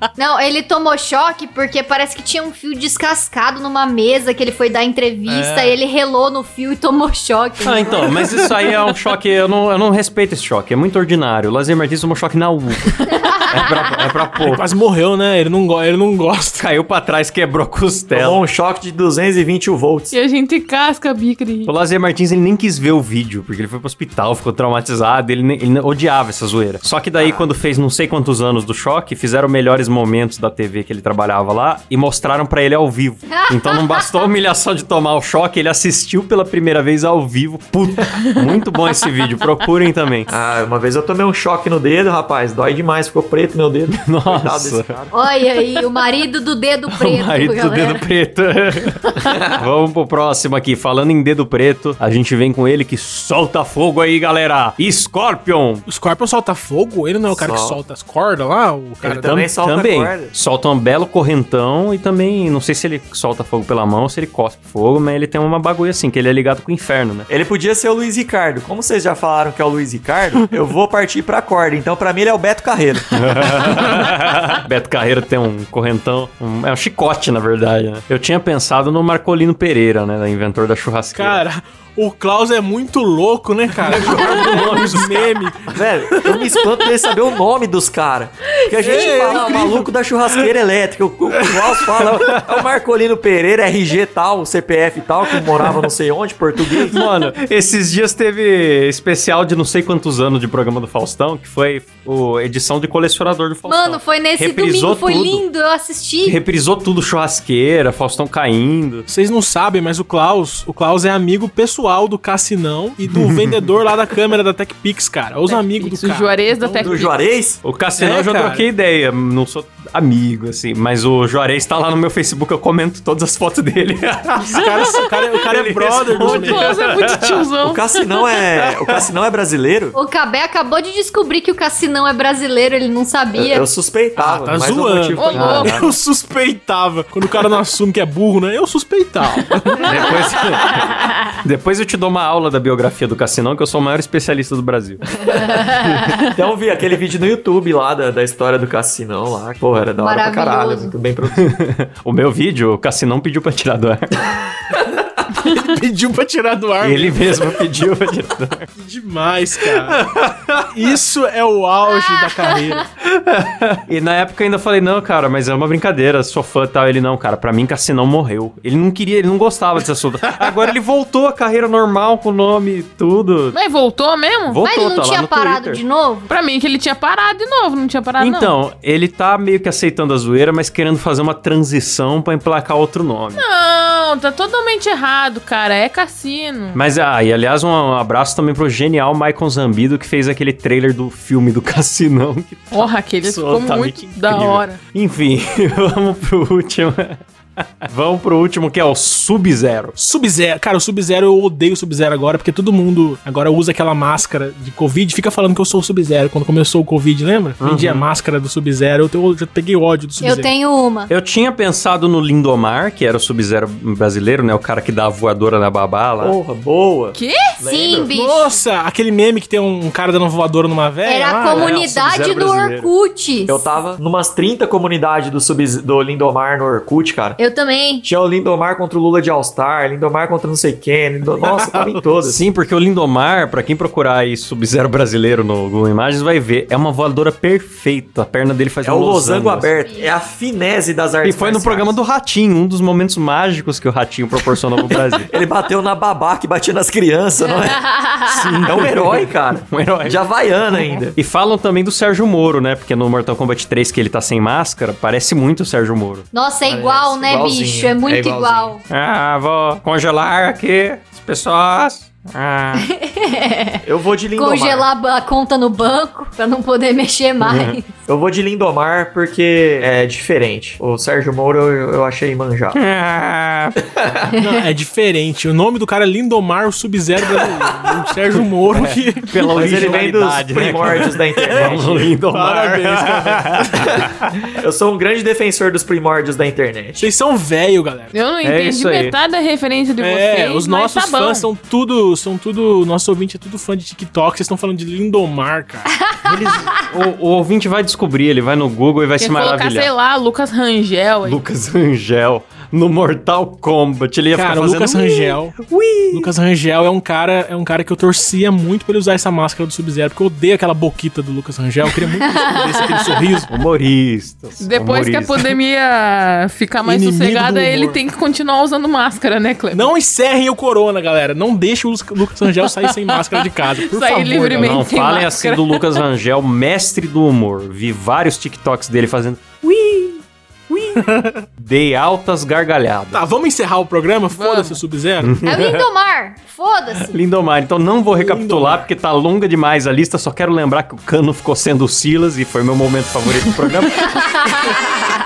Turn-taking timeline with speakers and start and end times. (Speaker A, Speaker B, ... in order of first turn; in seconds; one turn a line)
Speaker A: 0.2-8.1
Speaker B: 5.3-5.8
Speaker C: 7.6-14.7
Speaker B: 14.4-16.6
Speaker C: 16.6-18.4
Speaker D: 18.1-20.1
Speaker E: 20.1-21.7
Speaker C: 21.6-40.3
Speaker D: 27.1-27.5
Speaker A: 33.3-34.3
Speaker D: 40.3-45.1
Speaker C: 43.9-44.9
Speaker A: 45.1-48.0
Speaker C: 47.0-55.9
Speaker D: 49.2-49.7
Speaker B: 55.9-59.2
Speaker D: 57.3-57.8
Speaker D: 59.0-60.3
Speaker C: 59.0-67.3
Speaker D: 67.3-73.6
Speaker C: 73.1-81.4
Speaker B: 81.2-86.6
Speaker C: 83.8-85.5
Speaker D: 85.7-97.0
Speaker B: 88.8-89.9
Speaker C: 92.1-92.6
Speaker C: 96.8-105.4
Speaker A: 103.7-106.4
Speaker C: 106.2-109.1
Speaker B: 109.1-116.9
Speaker C: 113.1-113.7
Speaker E: 115.5-117.1
Speaker D: 116.8-117.6
Speaker C: 117.6-127.5
Speaker B: 118.0-118.7
Speaker B: 124.4-126.8
Speaker E: 126.1-128.2
Speaker D: 127.6-130.0
Speaker A: 129.9-133.7
Speaker D: 133.3-135.9
Speaker B: 134.2-139.9
Speaker E: 135.2-135.8
Speaker C: 135.3-135.7
Speaker C: 139.7-145.0
Speaker D: 145.2-151.6
Speaker C: 145.8-146.2
Speaker A: 150.0-150.9
Speaker C: 151.4-154.4
Speaker B: 155.4-157.6
Speaker C: 156.8-158.7
Speaker B: 158.8-160.0
Speaker C: 159.7-160.7
Speaker B: 160.7-162.9
Speaker A: 161.9-162.8
Speaker C: 163.0-173.6
Speaker E: 173.5-174.6
Speaker C: 174.5-175.8
Speaker A: 174.6-176.3
Speaker E: 176.3-178.5
Speaker C: 178.2-183.4
Speaker E: 183.4-186.8
Speaker C: 186.8-200.0
Speaker E: 192.7-194.8
Speaker B: 200.0-210.5
Speaker C: 207.6-208.1
Speaker A: 210.2-211.1
Speaker C: 211.1-216.4
Speaker D: 216.2-218.1
Speaker E: 217.2-217.5
Speaker A: 217.6-218.6
Speaker B: 218.1-221.7
Speaker A: 221.1-223.7
Speaker C: 221.5-222.9
Speaker D: 223.5-227.4
Speaker A: 227.4-228.1
Speaker D: 228.0-232.4
Speaker C: 231.4-239.8
Speaker D: 238.8-242.0
Speaker C: 241.2-245.3
Speaker D: 245.2-247.8
Speaker A: 247.7-248.6
Speaker C: 248.3-250.2
Speaker D: 248.6-251.2
Speaker C: 250.7-256.3
Speaker A: 256.3-258.8
Speaker D: 256.6-258.7
Speaker C: 258.9-262.9
Speaker A: 262.8-263.8
Speaker D: 263.9-264.9
Speaker A: 264.4-267.9
Speaker C: 267.4-267.8
Speaker D: 268.1-272.8
Speaker C: 272.8-273.8
Speaker D: 273.9-274.3
Speaker B: 274.4-280.1
Speaker C: 277.9-284.4
Speaker D: 279.5-282.1
Speaker B: 281.4-283.9
Speaker D: 284.6-287.1
Speaker B: 287.0-288.2
Speaker E: 288.1-291.5
Speaker C: 288.4-289.2
Speaker B: 290.0-296.1
Speaker C: 296.2-299.9
Speaker E: 299.2-301.4
Speaker C: 301.2-306.3
Speaker B: 304.3-305.6
Speaker B: 306.1-313.5
Speaker A: 312.2-313.1
Speaker C: 313.5-315.5
Speaker E: 314.6-319.9
Speaker B: 316.8-318.0
Speaker B: 319.7-324.9
Speaker E: 322.6-326.0
Speaker C: 324.5-333.3
Speaker B: 331.0-331.5
Speaker B: 333.1-335.4
Speaker E: 334.3-334.8
Speaker C: 335.2-335.9
Speaker A: 335.4-337.1
Speaker C: 337.1-344.8
Speaker B: 338.2-338.9
Speaker A: 344.1-344.8